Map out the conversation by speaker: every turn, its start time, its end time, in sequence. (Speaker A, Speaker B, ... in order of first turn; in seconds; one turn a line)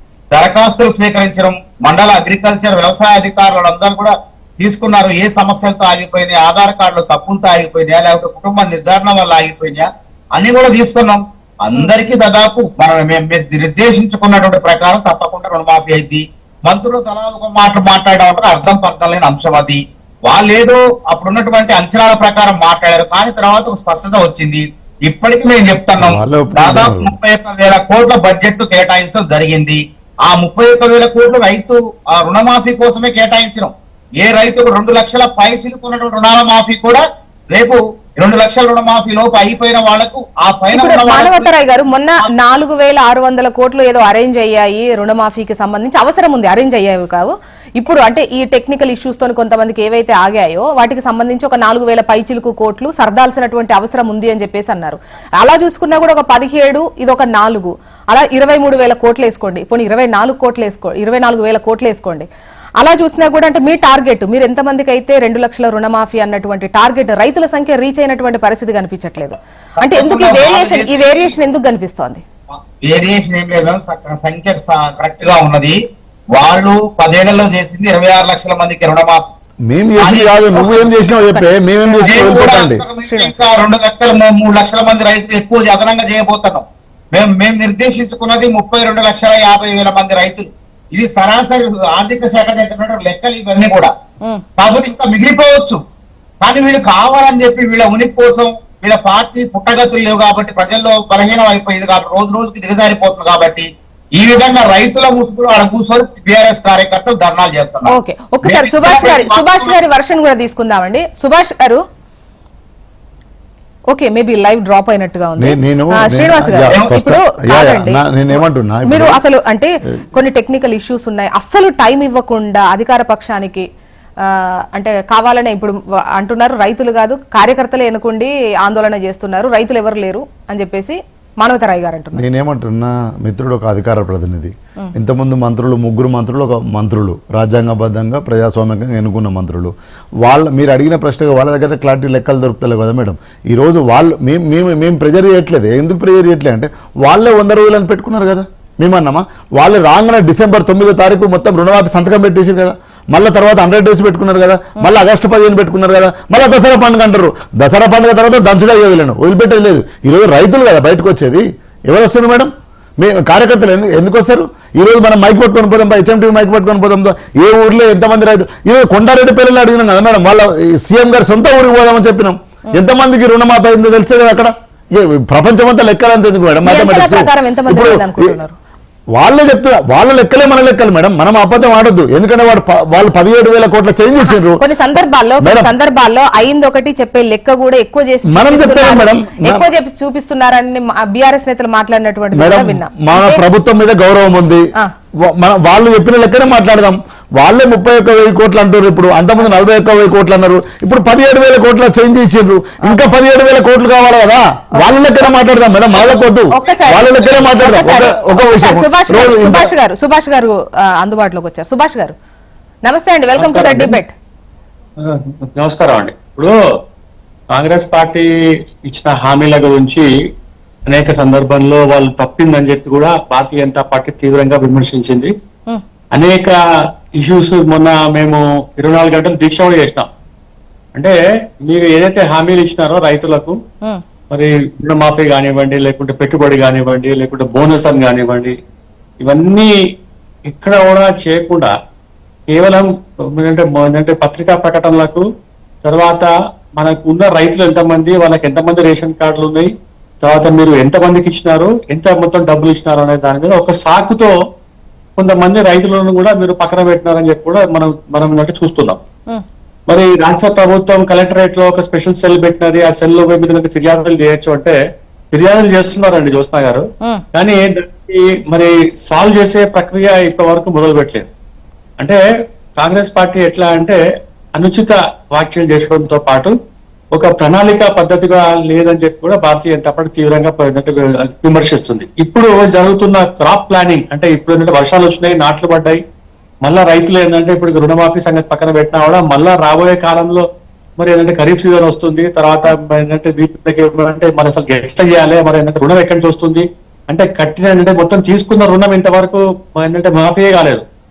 Speaker A: 0.3-41.5
Speaker B: 26.0-27.1
Speaker C: 40.7-72.2
Speaker A: 69.8-71.4
Speaker A: 72.5-75.8
Speaker A: 76.3-79.3
Speaker B: 79.7-82.8
Speaker A: 80.0-80.9
Speaker C: 80.6-83.3
Speaker A: 82.0-93.9
Speaker A: 94.6-95.8
Speaker A: 96.4-109.8
Speaker C: 107.9-111.8
Speaker C: 113.9-118.0
Speaker B: 115.4-119.2
Speaker C: 118.8-123.7
Speaker C: 124.2-132.2
Speaker B: 132.2-178.3
Speaker C: 176.7-178.5
Speaker B: 179.2-184.6
Speaker C: 184.3-193.4
Speaker B: 185.4-185.7
Speaker B: 188.3-189.7
Speaker B: 192.3-194.7
Speaker B: 195.2-209.7
Speaker A: 205.9-207.5
Speaker C: 206.5-212.1
Speaker C: 212.8-214.1
Speaker D: 213.4-214.0
Speaker D: 215.0-216.5
Speaker D: 217.5-220.1
Speaker D: 220.9-225.3
Speaker D: 226.1-226.6
Speaker D: 227.2-230.1
Speaker D: 230.9-233.6
Speaker D: 234.3-238.6
Speaker D: 239.2-239.7
Speaker D: 240.5-241.7
Speaker D: 242.5-245.2
Speaker D: 245.8-249.7
Speaker D: 250.2-254.3
Speaker D: 255.2-259.0
Speaker D: 259.9-264.8
Speaker D: 265.3-271.3
Speaker D: 272.8-274.0
Speaker D: 274.6-276.5
Speaker D: 277.1-286.0
Speaker D: 286.6-290.4
Speaker D: 291.0-300.8